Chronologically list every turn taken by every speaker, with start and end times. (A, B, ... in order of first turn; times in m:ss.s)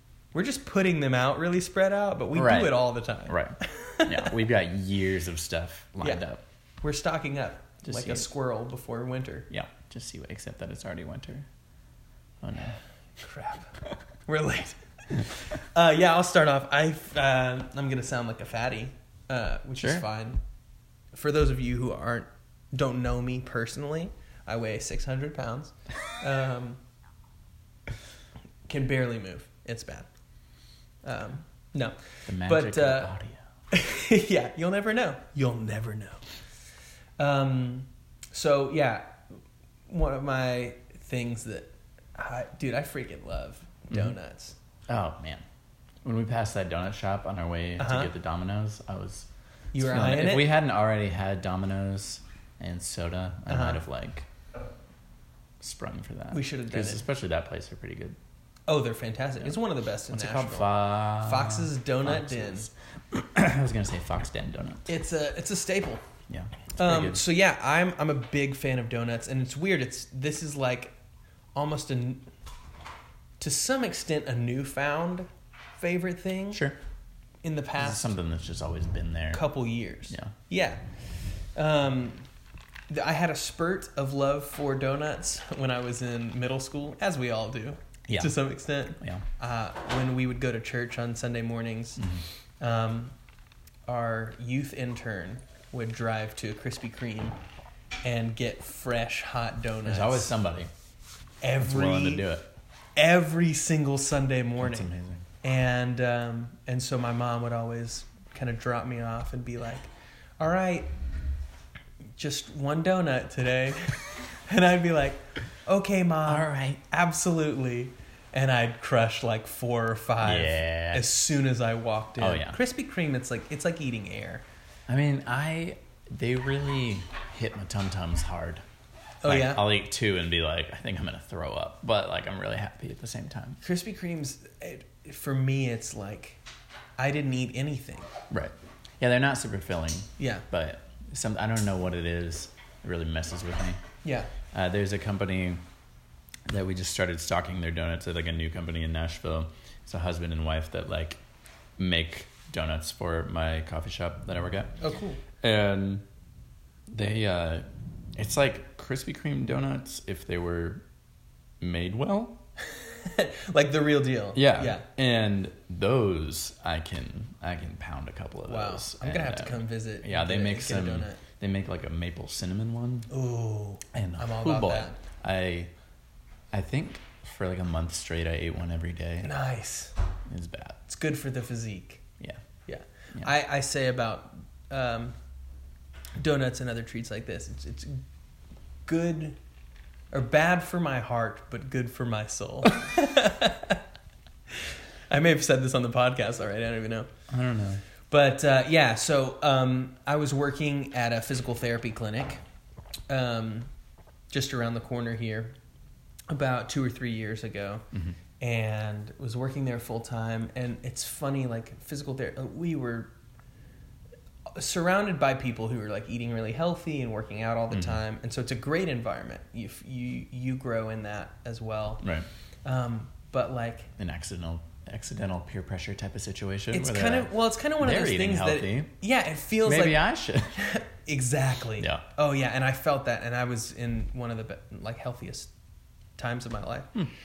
0:00.3-0:04.3 A
0:02.3-0:06.4 B
0:06.8-0:09.5 A
0:07.8-0:08.3 B
0:09.5-0:11.5 B
0:12.4-0:12.8 B
0:13.2-0:13.7 A
0:14.3-0:20.4 A
0:19.8-0:20.1 B
0:21.1-0:26.8 A
0:28.7-0:30.1 A
0:31.0-0:33.2 A
0:32.3-0:33.4 B
0:33.7-0:36.2 A
0:37.2-0:39.2 A
0:39.9-0:44.6 A
0:44.9-0:45.4 B
0:46.0-0:49.3 B
0:47.8-0:48.1 A
0:49.7-0:50.5 A
0:49.8-0:54.3 B
0:53.5-0:53.8 A
0:55.6-0:58.2 B
0:56.3-0:57.0 A
0:58.7-1:02.7 A
1:00.1-1:04.9 B
1:04.9-1:06.0 A
1:06.3-1:07.2 B
1:06.8-1:10.9 A
1:11.6-1:12.3 A
1:13.4-1:16.6 A
1:16.5-1:16.8 B
1:17.4-1:18.2 A
1:17.8-1:19.4 B
1:19.3-1:20.8 A
1:20.1-1:20.4 B
1:21.6-1:22.2 A
1:22.9-1:32.1 A
1:28.1-1:29.3 B
1:32.0-1:32.2 B
1:32.6-1:33.2 A
1:33.9-1:37.4 A
1:38.0-1:40.3 A
1:39.8-1:40.7 B
1:41.4-1:42.3 A
1:41.6-1:42.5 B
1:43.0-1:50.9 A
1:44.6-1:45.3 B
1:52.2-2:04.4 A
1:56.3-1:56.8 B
2:00.2-2:01.1 B
2:02.2-2:02.6 B
2:04.9-2:08.6 B
2:09.2-2:13.6 B
2:09.2-2:09.7 A
2:13.6-2:16.4 A
2:17.0-2:18.1 A
2:18.3-2:23.8 B
2:20.2-2:20.5 A
2:24.0-2:24.3 A
2:24.5-2:25.6 B
2:26.5-2:31.2 B
2:31.8-2:34.7 B
2:34.8-2:35.2 A
2:35.4-2:36.0 B
2:36.9-2:37.7 B
2:38.2-2:40.8 B
2:41.6-2:42.4 B
2:42.9-2:44.8 A
2:44.4-2:53.1 B
2:48.5-2:51.2 A
2:53.1-2:55.0 A
2:53.9-2:55.7 B
2:56.5-2:59.3 B
2:59.2-3:00.0 A
3:00.3-3:00.8 B
3:00.9-3:02.0 A
3:02.7-3:05.2 A
3:06.2-3:08.0 A
3:08.9-3:09.4 A
3:10.1-3:13.8 A
3:14.5-3:17.1 A
3:17.3-3:17.8 B
3:18.1-3:22.4 A
3:23.1-3:23.7 A
3:24.3-3:25.6 A
3:26.3-3:27.9 A
3:27.9-3:28.2 B
3:28.4-3:33.1 A
3:34.5-3:42.0 A
3:37.7-3:38.0 B
3:42.6-3:43.9 A
3:44.0-3:48.9 B
3:46.7-3:55.5 A
3:49.6-3:50.6 B
3:51.8-3:52.0 B
3:56.2-3:57.1 A